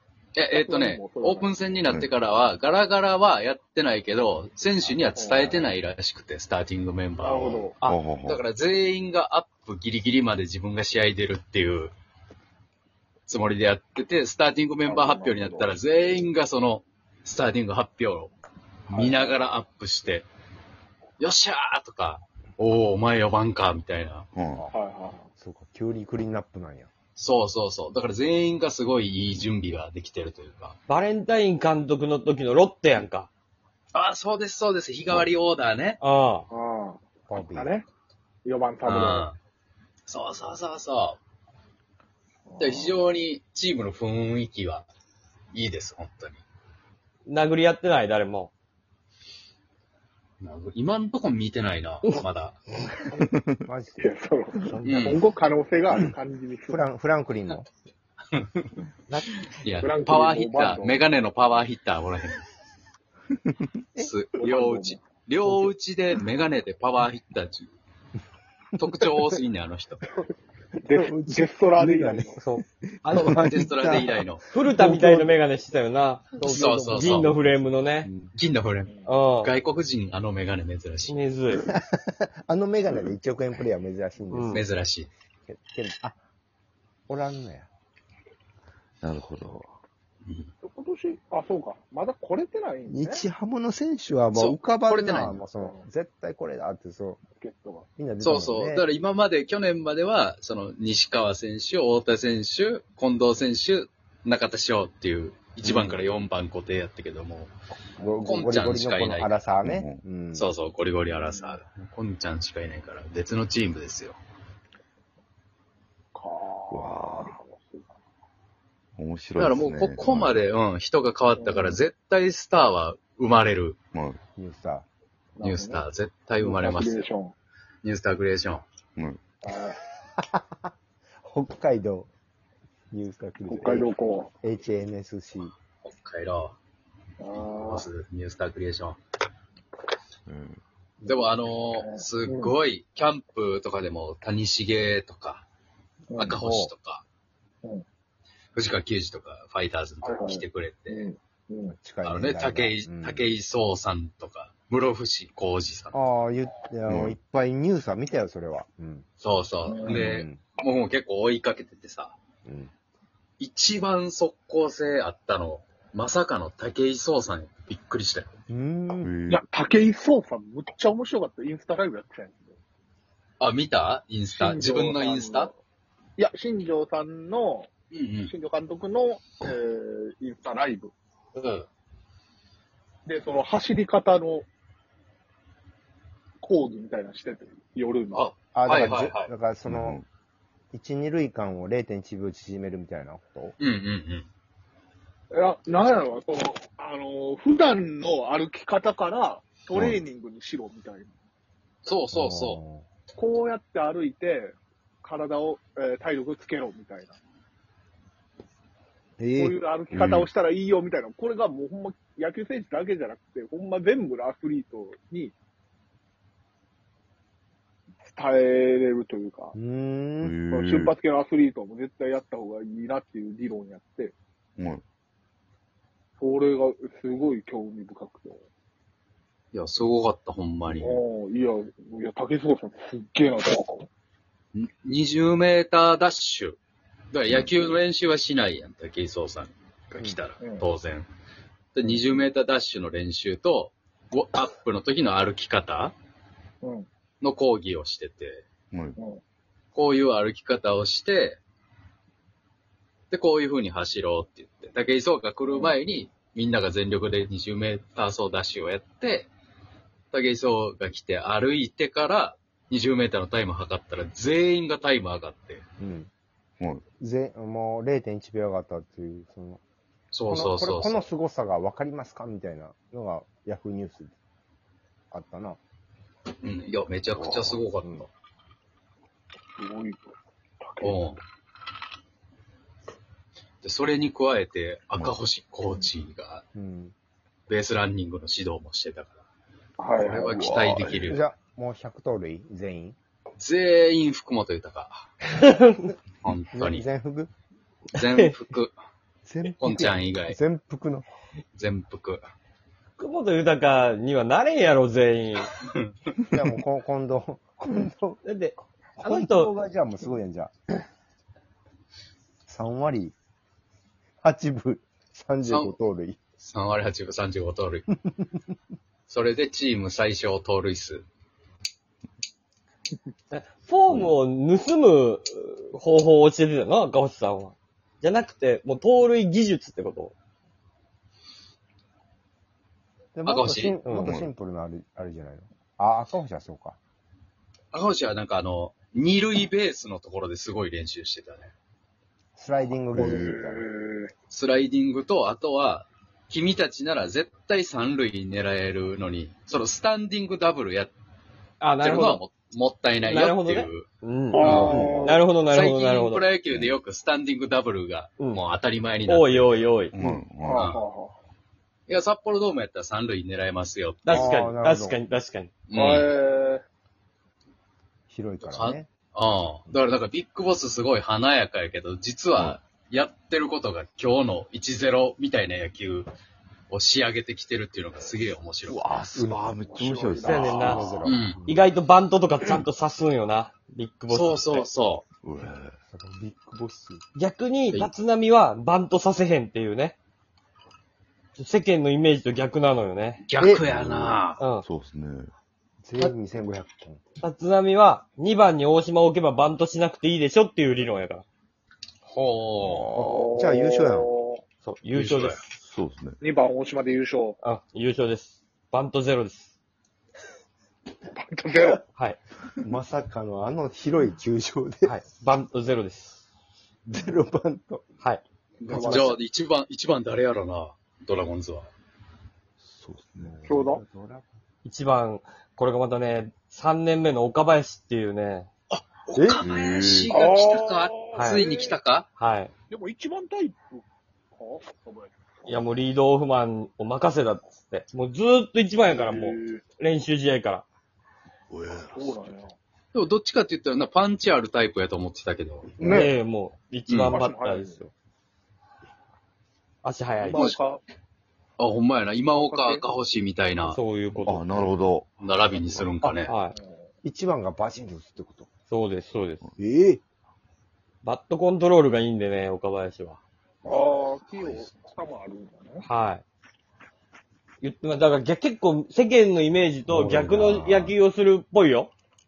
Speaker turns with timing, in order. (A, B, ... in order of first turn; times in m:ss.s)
0:00.4-0:07.7 A
0:00.5-0:01.6 B
0:04.9-0:05.7 B
0:07.2-0:07.8 B
0:07.8-0:08.4 C
0:08.2-0:11.9 A
0:13.3-0:18.3 A
0:14.8-0:15.7 B
0:18.9-0:20.3 A
0:18.9-0:19.4 B
0:21.2-0:24.3 A
0:24.3-0:24.6 C
0:24.7-0:25.3 B
0:25.4-0:26.9 D
0:27.2-0:30.8 A
0:30.9-0:33.3 E
0:33.9-0:36.0 A
0:36.0-0:36.5 E
0:36.5-0:37.8 B
0:37.3-0:37.7 D
0:38.4-0:39.3 B
0:38.8-0:39.4 A
0:40.1-0:41.2 A
0:42.5-0:43.0 B
0:42.6-0:44.9 A
0:45.5-0:46.4 A
0:47.2-0:48.5 E
0:50.4-0:52.6 A
0:53.6-0:54.1 D
0:54.0-0:56.9 B
0:54.7-0:55.1 E
0:54.8-0:55.2 A
0:56.7-0:57.6 D
0:59.6-1:02.5 A
0:59.8-1:01.0 B
1:04.0-1:07.7 A
1:04.4-1:05.1 B
1:08.8-1:10.0 A
1:10.8-1:12.4 B
1:10.9-1:15.3 D
1:12.4-1:13.6 E
1:13.1-1:14.4 A
1:14.5-1:18.1 E
1:16.4-1:18.1 D
1:16.4-1:17.4 A
1:18.3-1:21.2 A
1:19.0-1:19.5 E
1:21.1-1:21.6 E
1:21.7-1:24.7 D
1:24.3-1:24.6 E
1:24.5-1:25.1 A
1:25.5-1:26.2 D
1:27.1-1:27.7 D
1:29.0-1:29.7 C
1:30.6-1:33.2 B
1:32.9-1:37.2 D
1:34.3-1:35.4 A
1:37.4-1:37.8 B
1:38.0-1:38.8 D
1:38.2-1:47.5 A
1:45.6-1:46.1 D
1:48.0-1:50.5 D
1:48.2-1:49.5 A
1:49.6-1:50.0 C
1:50.3-1:54.2 A
1:51.1-1:51.6 B
1:56.1-1:57.9 B
1:56.7-1:57.4 C
1:59.0-2:00.5 C
1:59.4-2:03.8 A
2:01.4-2:01.8 B
2:03.9-2:04.2 C
2:04.4-2:04.9 D
2:05.4-2:05.8 B
2:05.4-2:07.1 A
2:06.4-2:07.3 B
2:07.8-2:08.6 A
2:09.0-2:09.2 C
2:09.4-2:09.8 B
2:11.2-2:12.1 D
2:12.9-2:13.9 D
2:13.5-2:14.3 B
2:14.4-2:15.5 D
2:15.8-2:16.6 A
2:17.2-2:17.9 B
2:17.3-2:19.0 A
2:20.3-2:20.6 C
2:21.0-2:25.4 A
2:21.8-2:22.5 B
2:26.1-2:26.4 B
2:26.2-2:27.0 A
2:26.3-2:26.7 D
2:28.5-2:31.1 A
2:30.0-2:31.7 B
2:31.7-2:33.3 D
2:32.0-2:36.0 A
2:35.9-2:39.0 D
2:36.9-2:37.2 C
2:39.2-2:42.1 A
2:39.6-2:40.0 B
2:39.8-2:40.4 D
2:42.4-2:42.7 D
2:43.4-2:48.3 A
2:48.5-2:49.1 D
2:49.0-2:49.4 C
2:49.3-2:52.5 B
2:53.4-2:55.5 A
2:54.3-2:55.5 B
2:56.2-2:57.7 B
2:57.9-2:58.3 A
2:58.3-3:00.9 B
3:01.4-3:01.7 A
3:03.0-3:04.4 B
3:06.4-3:08.3 B
3:08.1-3:09.3 A
3:08.5-3:10.0 D
3:09.6-3:10.0 C
3:10.7-3:13.5 D
3:13.6-3:14.3 A
3:15.3-3:21.1 B
3:19.7-3:20.0 C
3:21.8-3:22.6 A
3:22.1-3:22.8 D
3:23.2-3:27.1 B
3:29.2-3:30.3 D
3:29.4-3:35.3 B
3:38.0-3:39.5 B
3:39.5-3:40.3 D
3:40.2-3:40.9 C
3:40.5-3:44.1 B
3:44.6-3:44.8 C
3:46.2-3:48.4 B
3:49.5-3:51.0 A
3:50.8-3:53.9 B
3:54.5-3:56.6 A
3:57.1-4:01.1 A
4:00.4-4:00.6 B
4:01.7-4:05.9 A
4:07.2-4:08.4 A
4:08.7-4:09.0 C
4:09.7-4:11.4 A
4:13.1-4:19.3 A
4:20.1-4:25.6 A
4:25.8-4:26.1 D
4:27.0-4:29.6 D
4:30.1-4:31.1 A
4:30.3-4:34.1 D
4:35.1-4:35.6 D
4:36.4-4:38.1 A
4:39.6-4:41.1 B
4:40.8-4:41.2 A
4:43.6-4:46.4 A
4:46.5-4:46.9 D
4:47.5-4:49.1 A
4:49.8-4:50.3 B
4:50.0-4:51.2 A
4:50.1-4:51.2 C
4:51.0-4:53.0 D
4:53.4-4:55.1 A
4:55.5-4:55.8 E
4:56.2-4:56.8 A
4:56.5-4:57.3 D
4:57.9-4:58.7 A
4:59.2-5:01.1 D
4:59.4-5:00.4 A
5:01.6-5:02.2 A
5:03.0-5:05.5 E
5:06.3-5:08.2 D
5:08.2-5:09.5 E
5:09.0-5:10.5 D
5:12.5-5:13.2 D
5:14.2-5:16.2 D
5:15.4-5:15.8 A
5:16.4-5:17.9 A
5:19.1-5:21.0 A
5:23.3-5:30.1 E
5:23.9-5:24.1 C
5:33.1-5:36.8 D
5:33.2-5:33.8 A
5:33.8-5:34.1 E
5:34.0-5:34.3 C
5:37.7-5:41.5 A
5:42.4-5:43.7 D
5:42.9-5:44.1 B
5:42.9-5:43.4 C
5:44.3-5:50.9 A
5:51.6-5:52.2 E
5:51.8-5:53.8 A
5:53.0-5:56.2 E
5:54.3-5:55.2 B
5:54.4-5:54.8 A
5:54.4-5:55.2 C
5:55.4-5:59.6 A
5:59.1-5:59.9 E
5:59.9-6:00.8 C
6:00.4-6:01.1 B
6:00.5-6:00.8 A
6:01.9-6:04.3 A
6:04.0-6:05.5 E
6:04.1-6:05.0 D
6:05.7-6:06.1 A
6:05.7-6:06.6 B
6:08.1-6:08.9 D
6:08.4-6:16.1 A
6:16.7-6:18.8 A
6:18.7-6:20.8 C
6:19.1-6:19.5 D
6:19.7-6:20.6 B
6:20.2-6:24.7 E
6:20.4-6:21.4 A
6:20.6-6:21.7 D
6:24.1-6:25.0 A
6:25.2-6:25.7 C
6:25.9-6:27.0 D
6:27.1-6:29.9 E
6:31.4-6:33.2 E
6:33.3-6:34.4 A
6:33.4-6:33.6 D
6:33.6-6:35.3 C
6:34.4-6:34.6 E
6:35.8-6:37.0 D
6:37.2-6:41.2 E
6:42.0-6:42.9 A
6:42.6-6:43.3 C
6:42.9-6:44.1 D
6:43.1-6:44.4 B
6:44.6-6:45.6 E
6:44.9-6:45.4 A
6:45.6-6:46.2 C
6:46.2-6:47.4 B
6:47.4-6:49.5 E
6:51.1-6:51.8 B
6:52.6-6:54.9 D
6:54.8-6:56.2 E
6:56.9-6:57.8 D
6:58.6-7:01.7 A
6:58.6-6:59.2 D
6:58.8-6:59.0 B
7:02.6-7:03.5 C
7:03.2-7:04.2 D
7:03.4-7:03.8 B
7:04.6-7:08.5 E
7:08.7-7:12.1 A
7:09.4-7:10.1 C
7:10.1-7:11.8 B
7:11.1-7:11.4 E
7:12.2-7:12.5 E
7:12.7-7:13.8 B
7:14.3-7:15.6 B
7:15.4-7:20.6 E
7:18.9-7:19.6 B
7:21.5-7:22.3 C
7:21.9-7:22.5 B
7:22.9-7:25.8 A
7:25.8-7:26.1 B
7:25.8-7:27.9 E
7:26.9-7:27.2 A
7:27.0-7:27.9 B
7:29.8-7:30.5 E
7:30.2-7:30.8 B
7:30.3-7:30.6 A
7:31.6-7:33.8 A
7:32.3-7:32.8 B
7:33.6-7:34.7 E
7:34.1-7:35.9 C
7:35.2-7:36.3 A
7:36.0-7:36.8 B
7:36.2-7:36.6 E
7:37.0-7:38.5 D
7:38.7-7:39.4 E
7:39.6-7:40.0 D
7:41.0-7:43.2 E
7:43.6-7:45.8 B
7:45.8-7:46.2 E
7:47.6-7:51.9 E
7:50.4-7:50.9 C